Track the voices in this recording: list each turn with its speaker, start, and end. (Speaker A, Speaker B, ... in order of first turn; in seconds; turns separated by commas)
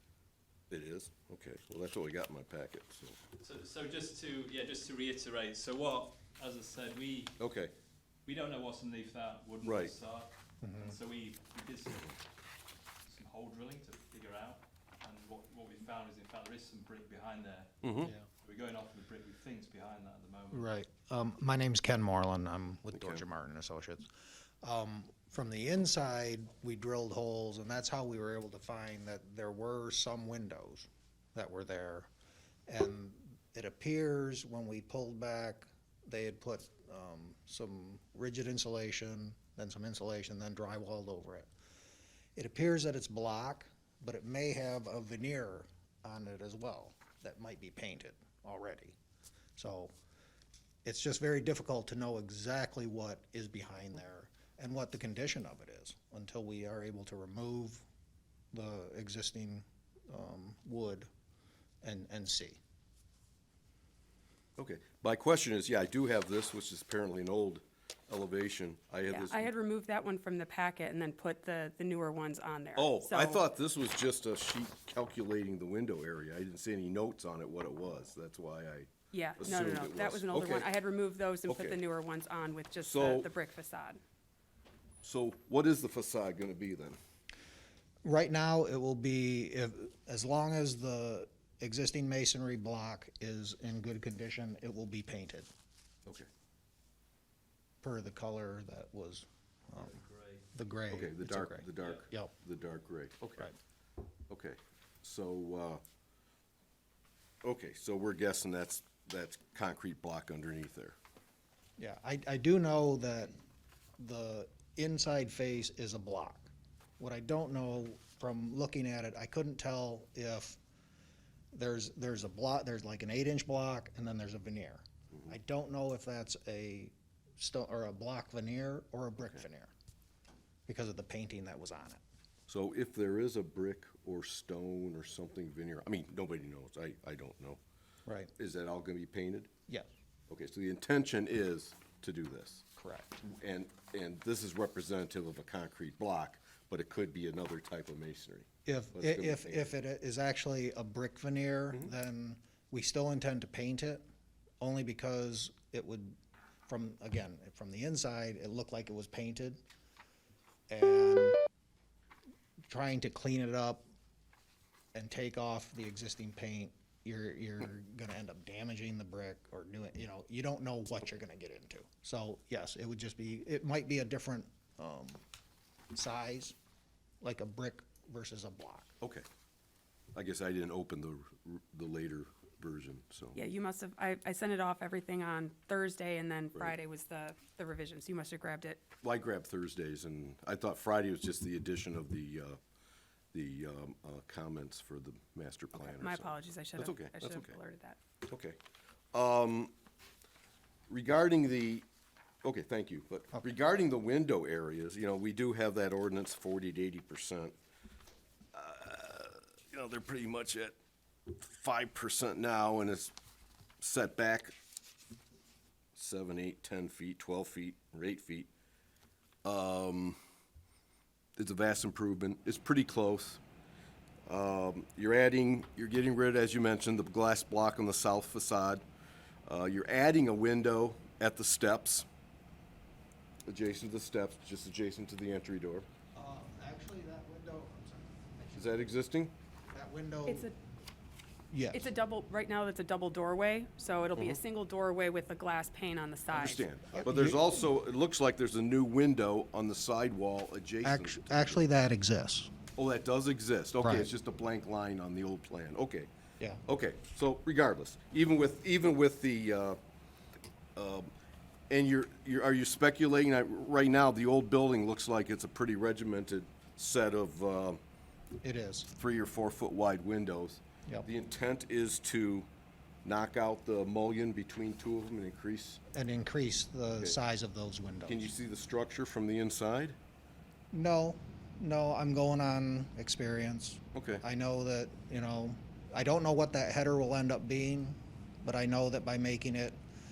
Speaker A: 0.7-3.2, Speaker B: 3.4-7.4, Speaker A: 7.4-7.7, Speaker B: 8.2-12.1, Speaker A: 9.6-9.9, Speaker C: 10.6-10.9, Speaker B: 13.1-17.8, Speaker A: 17.8-18.1, Speaker B: 18.4-20.7, Speaker C: 20.5-32.1, Speaker A: 22.9-23.2, Speaker C: 32.7-41.5, Speaker C: 42.4-49.0, Speaker C: 49.6-49.9, Speaker C: 50.8-57.8, Speaker C: 58.5-61.1, Speaker C: 61.8-62.6, Speaker A: 64.6-69.5, Speaker D: 69.1-73.4, Speaker A: 72.8-80.7, Speaker D: 79.1-84.0, Speaker A: 81.5-81.8, Speaker A: 82.8-83.3, Speaker A: 85.0-87.0, Speaker C: 88.0-95.5, Speaker C: 97.8-100.0, Speaker B: 99.8-100.4, Speaker C: 100.5-102.3, Speaker A: 100.9-103.5, Speaker A: 104.3-105.8, Speaker A: 107.4-111.0, Speaker C: 111.8-113.3, Speaker C: 114.0-120.6, Speaker C: 121.5-129.7, Speaker C: 130.7-132.0, Speaker A: 132.5-137.6, Speaker C: 138.1-138.3, Speaker A: 138.3-139.5, Speaker A: 140.3-142.7, Speaker C: 142.8-143.2, Speaker A: 143.2-149.7, Speaker C: 148.7-154.0, Speaker C: 154.6-159.6, Speaker C: 160.7-161.4, Speaker C: 162.7-163.8, Speaker C: 164.9-175.2, Speaker C: 175.9-176.5, Speaker C: 177.2-178.9, Speaker A: 179.0-179.2, Speaker A: 180.1-183.4, Speaker D: 183.3-188.8, Speaker A: 189.0-192.6, Speaker A: 193.3-197.5, Speaker D: 195.8-198.0, Speaker A: 198.2-198.6, Speaker A: 199.1-199.7, Speaker A: 200.9-201.8, Speaker A: 202.4-207.5, Speaker A: 208.5-210.8, Speaker A: 211.3-213.1, Speaker A: 213.8-214.5, Speaker A: 215.9-218.5, Speaker A: 219.4-220.2, Speaker A: 221.3-223.4, Speaker A: 224.2-228.8, Speaker A: 229.4-232.1, Speaker A: 233.5-235.9, Speaker C: 236.1-238.9, Speaker A: 238.5-239.3, Speaker C: 239.7-240.5, Speaker D: 240.3-240.5, Speaker C: 241.5-241.9, Speaker D: 241.7-246.6, Speaker A: 246.3-251.6, Speaker C: 246.9-247.4, Speaker C: 250.8-252.5, Speaker A: 252.7-256.1, Speaker C: 253.8-254.1, Speaker A: 256.6-259.8, Speaker A: 260.7-261.1, Speaker A: 261.7-267.8, Speaker C: 268.4-268.9, Speaker A: 268.9-272.5, Speaker A: 273.0-275.8, Speaker C: 275.9-278.3, Speaker A: 278.1-279.9, Speaker C: 280.7-289.8, Speaker A: 283.9-284.2